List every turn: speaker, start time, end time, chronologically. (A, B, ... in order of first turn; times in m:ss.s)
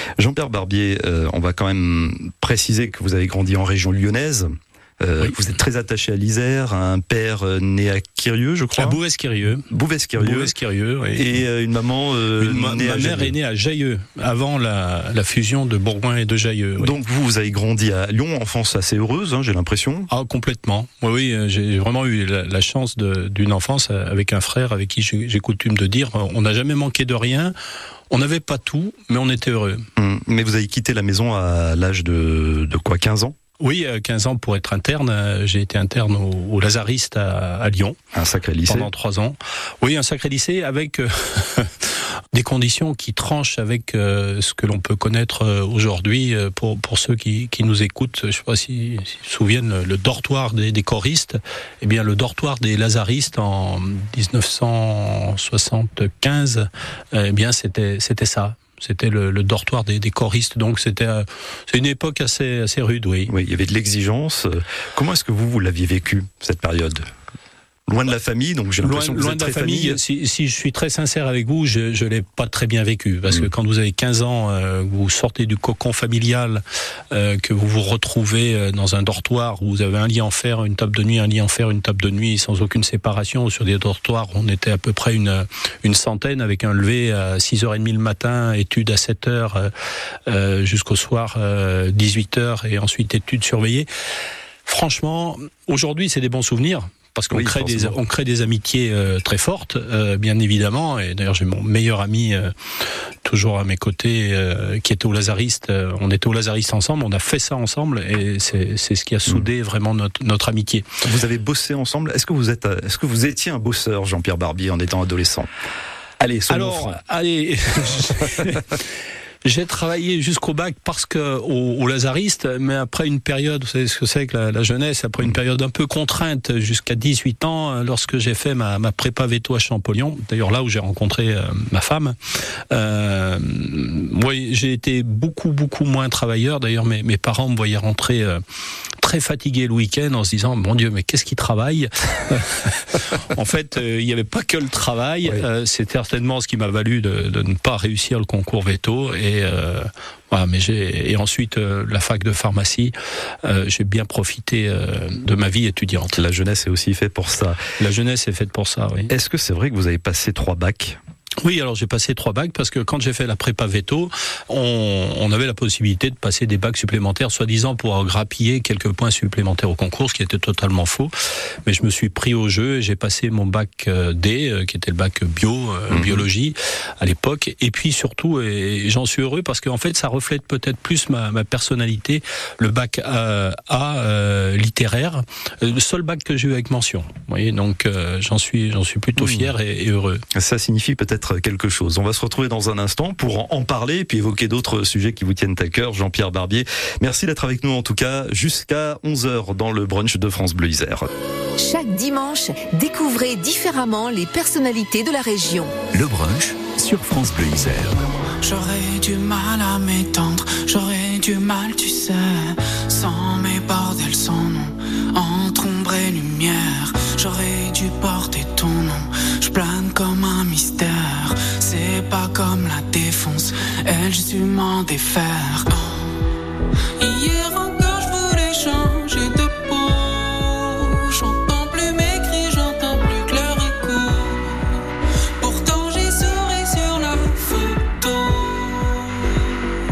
0:00.2-0:09.0 A
0:08.8-0:11.3 B
0:09.7-0:10.5 A
0:11.1-0:13.3 A
0:12.4-0:16.9 B
0:16.8-0:20.1 A
0:20.1-0:27.5 B
0:28.1-0:29.9 B
0:30.0-0:33.4 A
0:33.6-0:38.0 B
0:38.1-0:38.9 A
0:38.6-1:03.3 B
1:03.3-1:07.0 A
1:07.9-1:10.0 A
1:08.8-1:29.7 B
1:30.3-1:33.9 B
1:34.6-1:42.5 B
1:37.3-1:38.0 A
1:43.2-1:50.9 B
1:51.0-1:55.5 A
1:56.2-1:57.0 A
1:56.5-1:58.8 B
1:59.4-2:12.2 B
2:12.7-2:18.4 B
2:19.0-2:36.2 B
2:36.1-2:37.6 A
2:37.8-2:39.1 B
2:39.1-2:41.0 A
2:41.4-2:51.1 B
2:51.6-3:10.2 B
2:55.9-2:56.2 A
3:09.2-3:09.5 A
3:10.3-3:21.1 A
3:21.6-3:25.7 C
3:25.9-3:28.0 D
3:28.4-3:46.2 E
3:47.0-3:54.6 E
3:55.4-3:59.3 E